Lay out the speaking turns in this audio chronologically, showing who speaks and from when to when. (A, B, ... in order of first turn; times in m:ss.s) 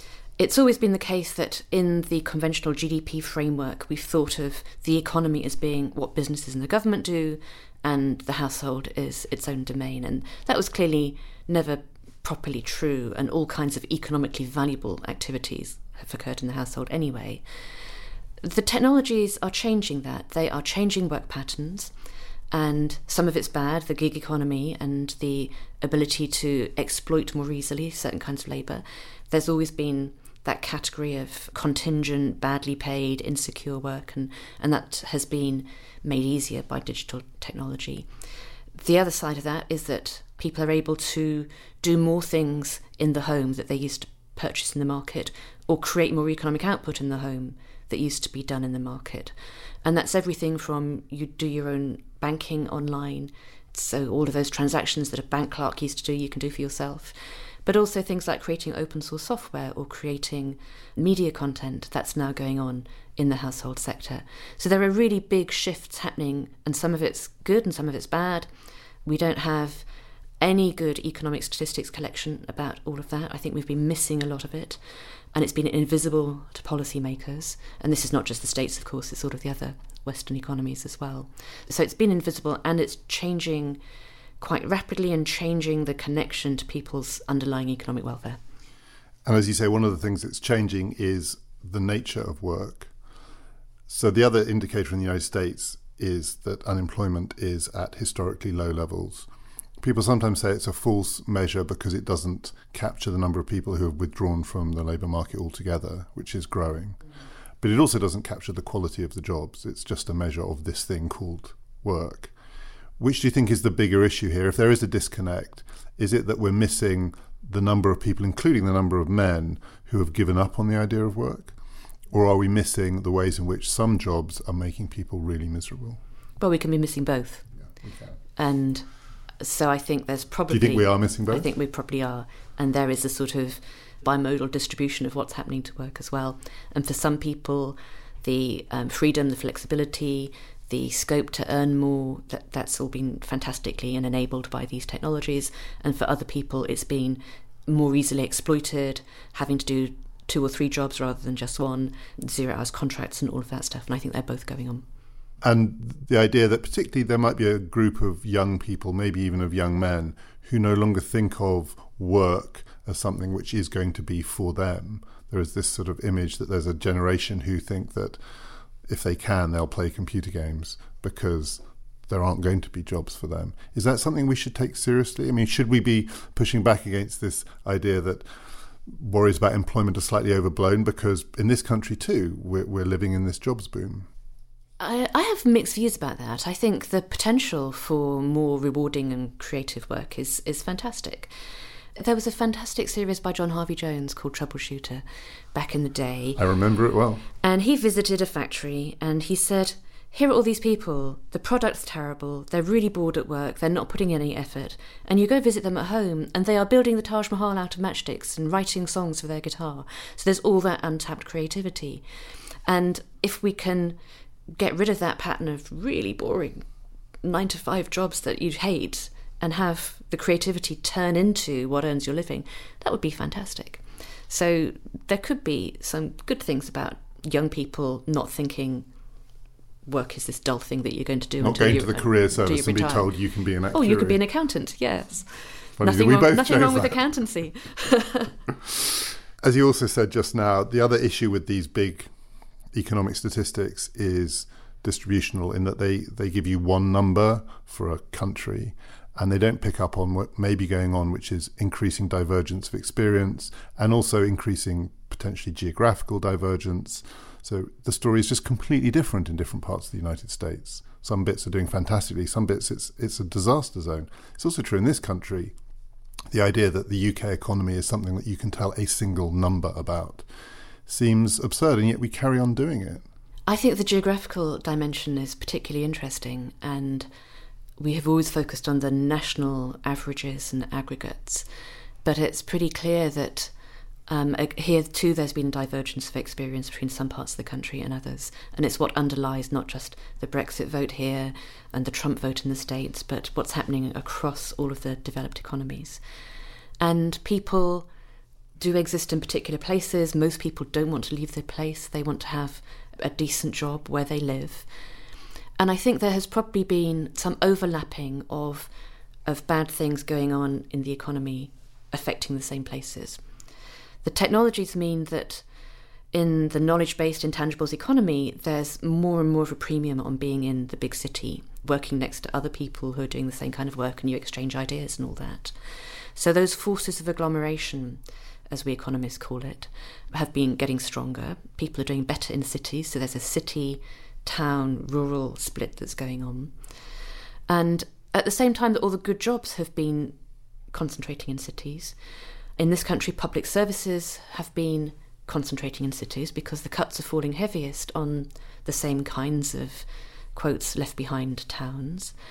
0:00.4-0:17.4 A
0:18.4-0:21.9 A
0:22.5-0:38.1 A
0:38.8-1:08.5 A
1:09.0-1:09.9 A
1:10.4-1:14.8 A
1:15.3-1:23.8 A
1:24.4-1:28.4 A
1:29.2-1:32.9 B
1:33.9-1:39.3 B
1:39.8-1:47.0 B
1:47.6-1:52.3 B
1:53.0-2:01.5 B
2:02.1-2:06.0 B
2:06.4-2:07.5 A
2:07.8-2:08.1 B
2:08.4-2:08.9 A
2:09.4-2:34.8 A
2:10.5-2:11.5 B
2:35.4-2:48.2 B
2:48.8-2:58.3 B
2:58.9-3:04.1 B
3:04.8-3:11.3 A
3:12.0-3:16.4 A
3:16.4-3:17.3 B
3:17.4-3:32.0 A
3:32.7-3:34.0 A
3:34.5-3:36.7 A
3:37.2-3:48.9 A
3:49.9-3:53.1 A
3:51.4-3:54.2 B
3:53.7-3:58.4 A
3:55.8-3:57.0 B
3:59.4-4:02.1 B
4:02.7-4:25.6 B
4:26.3-4:30.2 B
4:30.9-4:33.0 B
4:33.5-4:37.1 A
4:37.8-4:41.5 A
4:42.0-4:43.5 A
4:44.1-4:56.0 A
4:56.8-4:57.9 A
4:58.6-5:04.7 A
5:05.6-5:08.7 A
5:09.3-5:13.2 A
5:14.0-5:15.4 A
5:16.1-5:36.6 A
5:37.5-5:40.2 A
5:40.7-5:42.0 A
5:42.6-5:52.1 A